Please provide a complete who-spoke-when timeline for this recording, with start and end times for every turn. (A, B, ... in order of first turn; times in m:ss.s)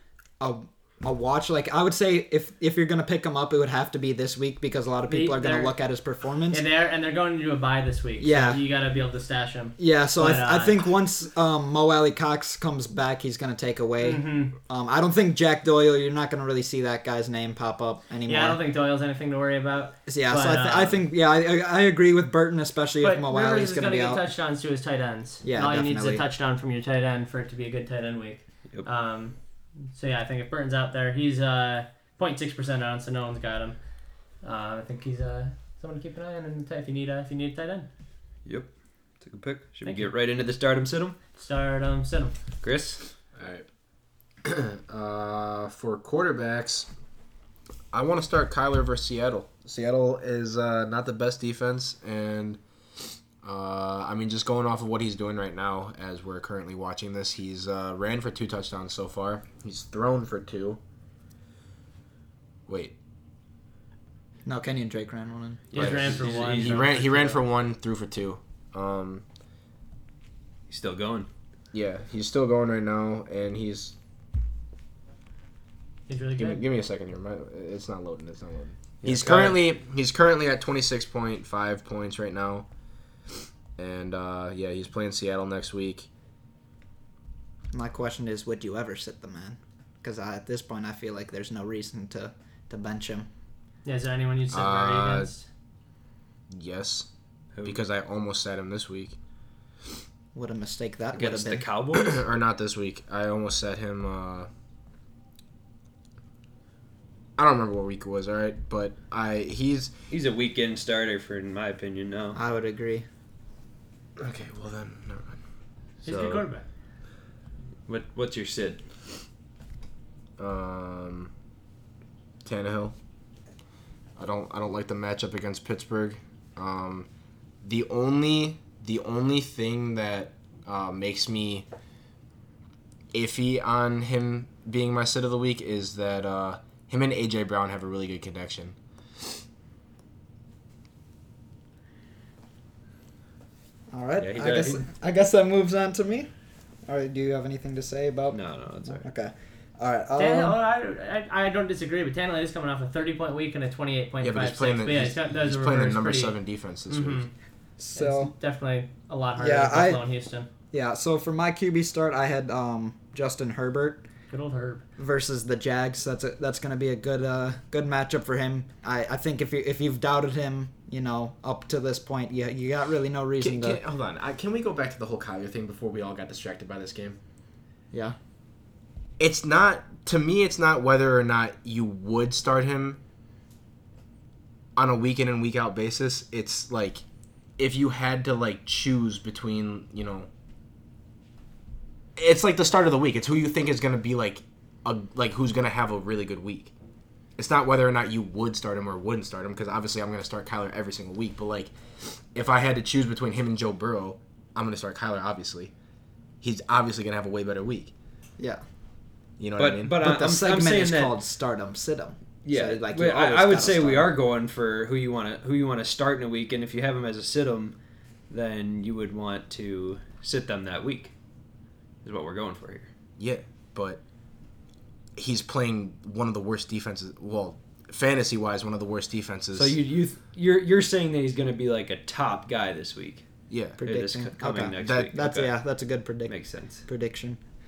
0:00.4-0:06.6 A
0:05.1-0:05.7 B
0:06.5-0:10.8 B
0:08.2-0:08.6 A
0:09.8-0:18.6 A
0:14.0-0:14.5 B
0:18.2-0:21.0 B
0:20.1-0:24.2 A
0:23.0-0:29.4 B
0:25.4-0:26.2 A
0:29.9-0:33.8 B
0:34.4-0:37.9 B
0:39.2-0:41.2 C
0:39.8-0:40.1 B
0:41.4-0:42.3 B
0:42.6-0:43.0 C
0:43.4-0:43.6 D
0:44.4-0:46.9 D
0:47.9-0:52.6 D
0:53.4-1:00.8 D
1:02.7-1:02.9 D
1:04.4-1:05.7 A
1:05.7-1:07.3 B
1:05.7-1:07.3 C
1:05.8-1:09.2 D
1:10.7-1:11.3 C
1:11.7-1:13.9 D
1:16.1-1:16.6 B
1:16.4-1:22.7 D
1:19.0-1:19.6 C
1:23.8-1:26.1 D
1:27.7-1:33.3 A
1:33.8-1:35.5 B
1:34.5-1:35.3 D
1:36.5-1:37.1 D
1:37.6-1:39.2 D
1:40.3-1:41.6 A
1:41.1-1:42.2 C
1:41.9-1:44.5 D
1:47.4-1:49.9 D
1:50.1-1:52.4 C
1:52.3-1:53.0 A
1:54.2-1:55.4 D
1:56.0-1:56.4 C
1:56.0-1:56.6 B
1:57.9-1:58.8 C
2:00.4-2:01.3 D
2:02.4-2:02.9 D
2:04.2-2:07.1 D
2:07.6-2:11.7 D
2:13.1-2:18.8 D
2:23.9-2:26.3 A
2:24.2-2:24.8 C
2:26.9-2:30.6 A
2:28.3-2:29.1 C
2:30.2-2:36.4 B
2:34.2-2:37.3 D
2:36.9-2:37.3 B
2:37.8-2:38.3 A
2:37.9-2:40.5 B
2:39.4-2:40.0 A
2:40.7-2:44.0 A
2:44.3-2:44.8 B
2:45.0-2:53.8 A
2:53.4-2:57.2 D
2:59.2-3:03.0 D
3:04.8-3:07.0 D
3:07.6-3:10.3 D
3:12.2-3:16.7 D
3:17.4-3:25.7 D
3:26.4-3:27.9 D
3:29.4-3:30.0 D
3:29.6-3:31.1 C
3:30.0-3:34.1 A
3:32.4-3:37.7 C
3:38.3-3:41.1 C
3:42.0-3:42.9 C
3:43.2-3:44.0 D
3:45.2-3:49.7 D
3:49.5-3:53.2 C
3:53.5-3:53.8 D
3:53.8-3:57.4 A
3:53.8-3:55.5 C
3:54.8-3:55.1 D
3:56.3-3:56.8 C